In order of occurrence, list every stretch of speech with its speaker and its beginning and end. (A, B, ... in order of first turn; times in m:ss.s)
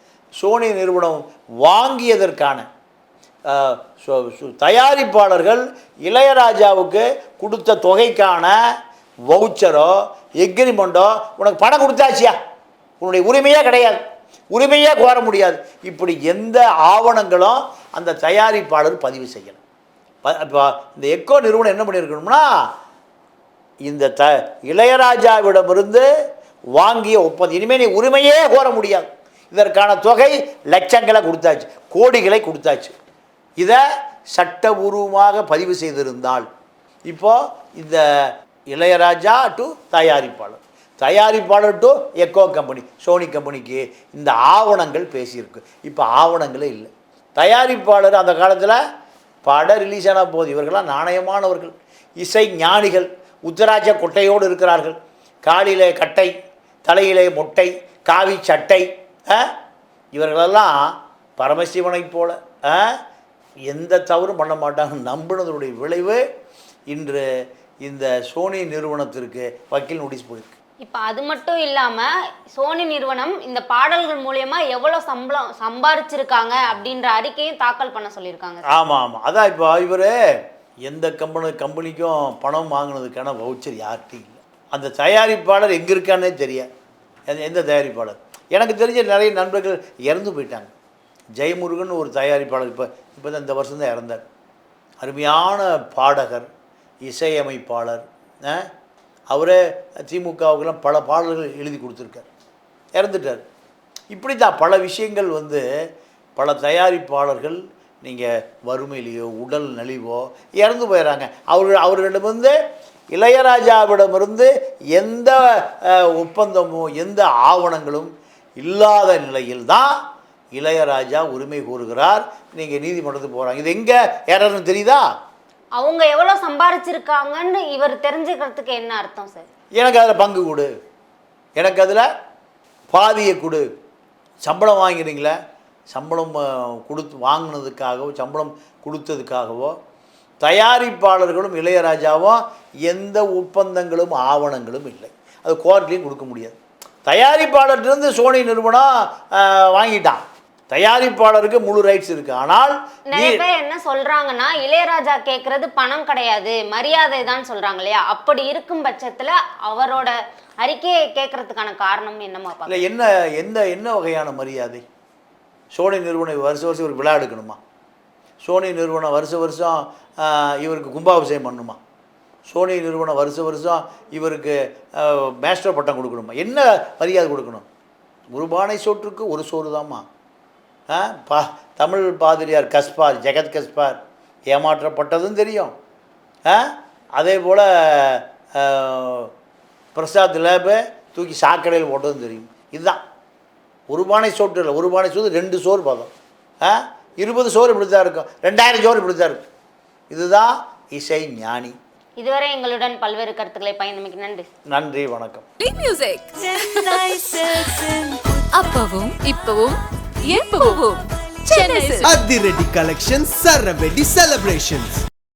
0:00.4-0:02.7 A
0:03.5-0:08.6 A
0:09.3-0:12.4 A
0:13.0-0:14.0 A
0:14.5-0:19.6 A
0:20.2-0:22.5 A
0:23.8-0:26.0 A
0:26.8-0:32.9 A
0:34.3-0:36.4 A
0:37.1-0:48.8 A
0:49.4-0:56.3 A
0:56.8-0:59.5 A
1:00.1-1:03.0 A
1:03.7-1:06.2 A
1:06.9-1:07.2 A
1:07.8-1:10.5 A
1:10.8-1:18.6 B
1:18.7-1:20.1 A
1:20.8-1:26.7 A
1:27.3-1:30.7 A
1:31.4-1:34.2 A
1:35.0-1:36.5 A
1:37.0-1:38.7 A
1:39.3-1:42.3 A
1:42.9-1:43.4 A
1:44.1-1:45.6 A
1:46.4-1:52.6 A
1:53.1-1:59.9 A
2:00.5-2:05.0 A
2:05.8-2:09.4 B
2:09.7-2:10.7 A
2:11.6-2:12.0 A
2:12.9-2:13.7 A
2:14.4-2:15.4 A
2:15.9-2:19.8 A
2:20.4-2:33.4 A
2:33.1-2:42.8 B
2:42.6-2:44.8 A
2:45.7-2:47.6 A
2:48.4-2:51.8 A
2:52.5-2:57.6 A
2:58.3-3:00.0 A
3:00.9-3:04.0 A
3:04.5-3:05.7 A
3:06.4-3:09.3 A
3:09.9-3:13.0 A
3:13.9-3:16.1 A
3:16.6-3:19.4 A
3:20.1-3:21.8 A
3:22.2-3:24.5 B
3:24.7-3:25.4 A
3:25.6-3:32.1 C
3:32.0-3:35.0 D